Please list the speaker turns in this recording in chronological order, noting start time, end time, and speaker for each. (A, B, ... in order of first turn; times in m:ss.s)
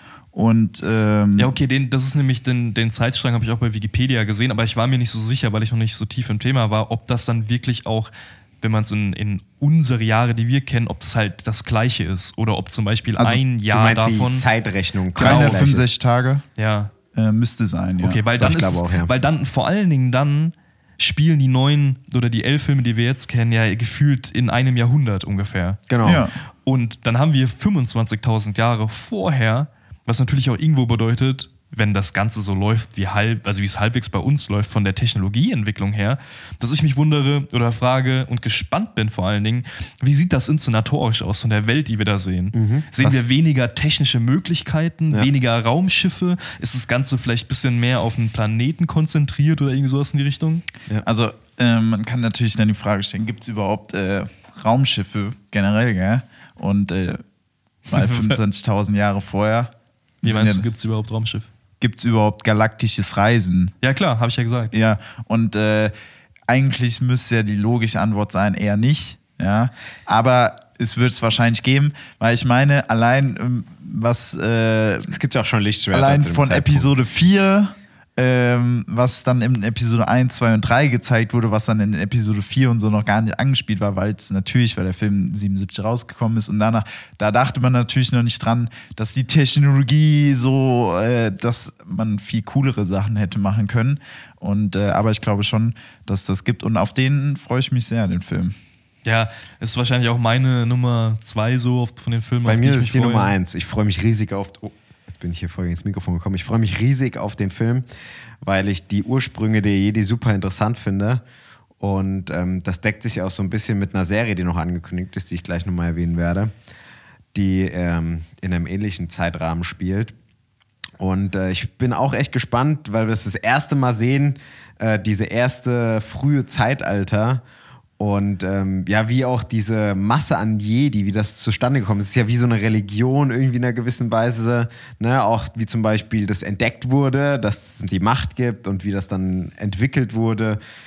0:00.3-0:01.5 A
0:01.4-0:14.5 B
0:13.7-0:15.9 C
0:15.2-0:16.4 A
0:15.2-0:15.6 B
0:16.6-0:16.9 B
0:17.1-0:18.2 A
0:18.0-0:25.8 B
0:18.4-0:19.1 C
0:25.9-0:26.3 C
0:26.0-0:26.3 A
0:26.6-0:50.6 B
0:42.5-0:43.2 C
0:51.0-0:57.2 A
0:57.9-0:58.4 B
0:57.9-1:00.6 A
1:00.2-1:01.5 B
1:01.8-1:03.7 A
1:03.8-1:04.7 B
1:04.7-1:05.9 A
1:06.5-1:15.2 A
1:15.1-1:16.9 C
1:15.9-1:38.6 A
1:39.0-1:43.3 B
1:42.5-1:47.8 C
1:48.4-1:51.2 C
1:51.8-1:56.5 C
1:57.3-2:00.1 C
2:01.0-2:07.4 C
2:08.0-2:20.6 C